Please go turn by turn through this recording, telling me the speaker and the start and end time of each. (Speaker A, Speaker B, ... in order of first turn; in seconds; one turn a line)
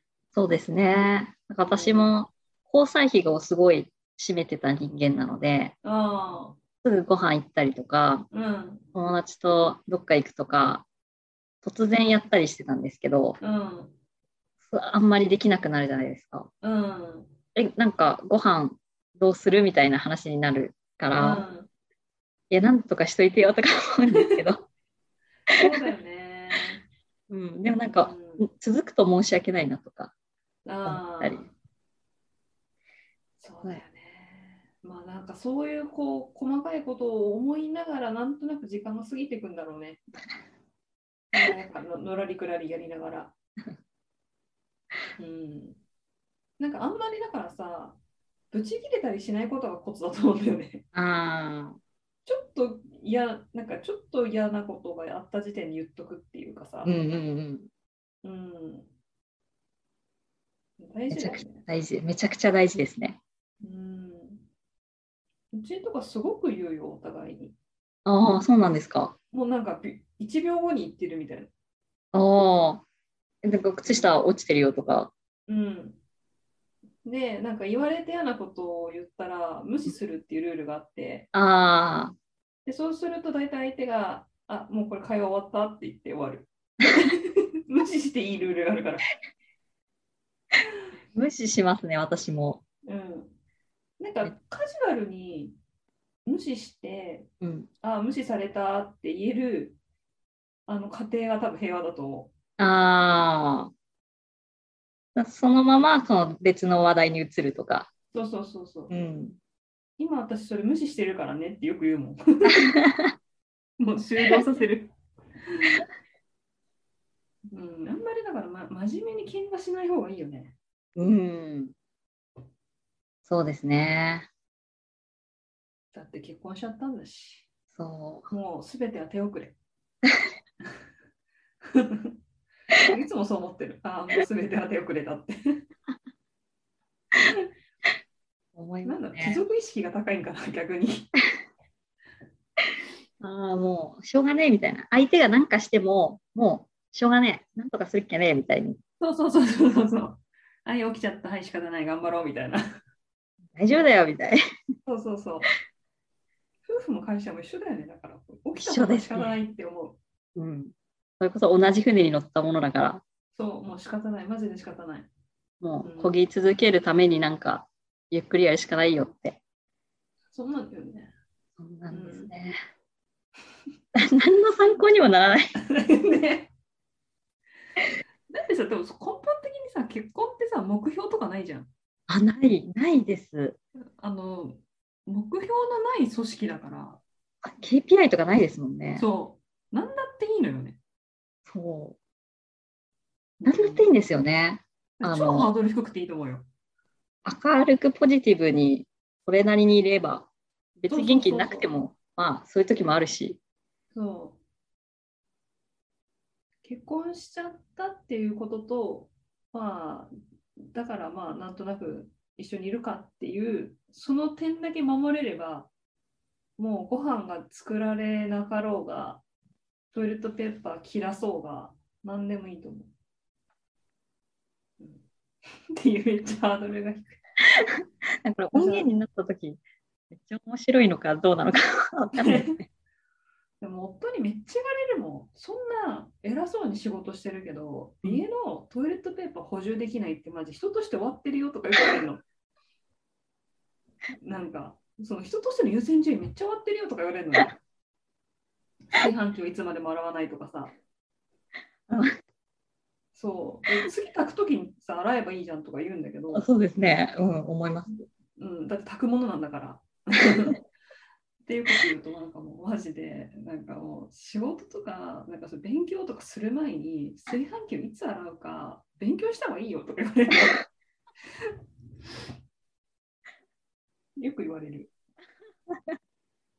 Speaker A: 0.3-5.7
Speaker B: 1.6-2.1
Speaker B: 5.8-6.6
Speaker A: 6.8-8.3
Speaker B: 8.3-8.8
Speaker A: 8.9-10.8
Speaker A: 11.6-13.4
Speaker B: 13.4-13.9
Speaker A: 14.7-16.5
Speaker B: 16.6-17.3
Speaker A: 17.6-21.4
Speaker B: 21.1-21.7
Speaker A: 22.5-24.6
Speaker B: 24.1-24.4
Speaker B: 25.5-26.8
Speaker A: 27.3-30.1
Speaker B: 27.9-28.5
Speaker B: 30.6-31.5
Speaker A: 30.9-31.4
Speaker B: 33.4-40.0
Speaker B: 41.3-43.3
Speaker B: 45.2-45.8
Speaker B: 46.6-48.0
Speaker B: 48.5-50.8
Speaker A: 50.9-51.8
Speaker B: 52.2-56.9
Speaker A: 56.8-57.7
Speaker B: 58.2-58.9
Speaker B: 60.8-61.7
Speaker A: 61.1-63.2
Speaker B: 63.6-64.4
Speaker B: 65.5-67.5
Speaker A: 68.0-69.1
Speaker B: 69.3-71.5
Speaker A: 72.1-72.8
Speaker A: 73.4-75.1
Speaker B: 73.9-74.1
Speaker B: 75.5-76.0
Speaker B: 77.0-81.3
Speaker A: 81.3-82.1
Speaker B: 82.7-89.1
Speaker A: 91.1-92.6
Speaker B: 92.8-93.3
Speaker B: 94.0-95.5
Speaker B: 96.2-97.3
Speaker A: 97.4-97.7
Speaker B: 97.8-99.8
Speaker B: 100.7-102.3
Speaker A: 102.6-103.7
Speaker A: 105.1-107.9
Speaker B: 108.1-108.9
Speaker A: 108.9-109.4
Speaker B: 110.0-112.8
Speaker A: 112.7-113.1
Speaker B: 113.8-114.9
Speaker B: 115.5-115.8
Speaker B: 117.5-120.5
Speaker A: 121.0-121.7
Speaker A: 123.2-124.3
Speaker B: 125.9-127.5
Speaker A: 127.7-128.3
Speaker B: 128.3-129.6
Speaker B: 131.6-132.1
Speaker B: 132.8-135.6
Speaker A: 138.5-139.4
Speaker B: 138.8-141.1
Speaker A: 143.2-148.8
Speaker B: 149.0-152.6
Speaker A: 153.5-154.4
Speaker B: 154.8-155.5
Speaker B: 156.7-160.0
Speaker A: 158.6-159.3
Speaker A: 160.3-163.0
Speaker B: 163.3-165.1
Speaker A: 165.6-169.4
Speaker B: 165.8-166.1
Speaker B: 170.3-171.1
Speaker A: 171.6-172.5
Speaker B: 171.9-172.3
Speaker A: 173.9-175.5
Speaker B: 175.6-176.5
Speaker B: 178.3-181.7
Speaker A: 182.1-183.6
Speaker B: 184.0-187.0
Speaker A: 187.4-189.1
Speaker B: 188.9-190.8
Speaker A: 191.5-192.0
Speaker B: 193.4-193.9
Speaker A: 193.4-195.5
Speaker B: 195.0-196.5
Speaker A: 197.2-203.4
Speaker B: 200.9-201.7
Speaker B: 203.9-204.4
Speaker B: 206.6-210.1
Speaker B: 210.7-215.7
Speaker B: 216.6-219.2
Speaker B: 219.9-222.9
Speaker B: 224.8-225.0
Speaker B: 225.7-227.2
Speaker A: 228.2-229.6
Speaker B: 228.5-228.9
Speaker A: 230.1-232.6
Speaker B: 232.1-232.6
Speaker B: 233.6-242.2
Speaker B: 244.2-247.5
Speaker B: 248.9-250.7
Speaker A: 251.9-252.2
Speaker B: 253.1-256.4
Speaker A: 256.3-258.0
Speaker B: 258.4-260.6
Speaker B: 261.4-270.6
Speaker B: 274.2-274.9
Speaker A: 275.7-275.9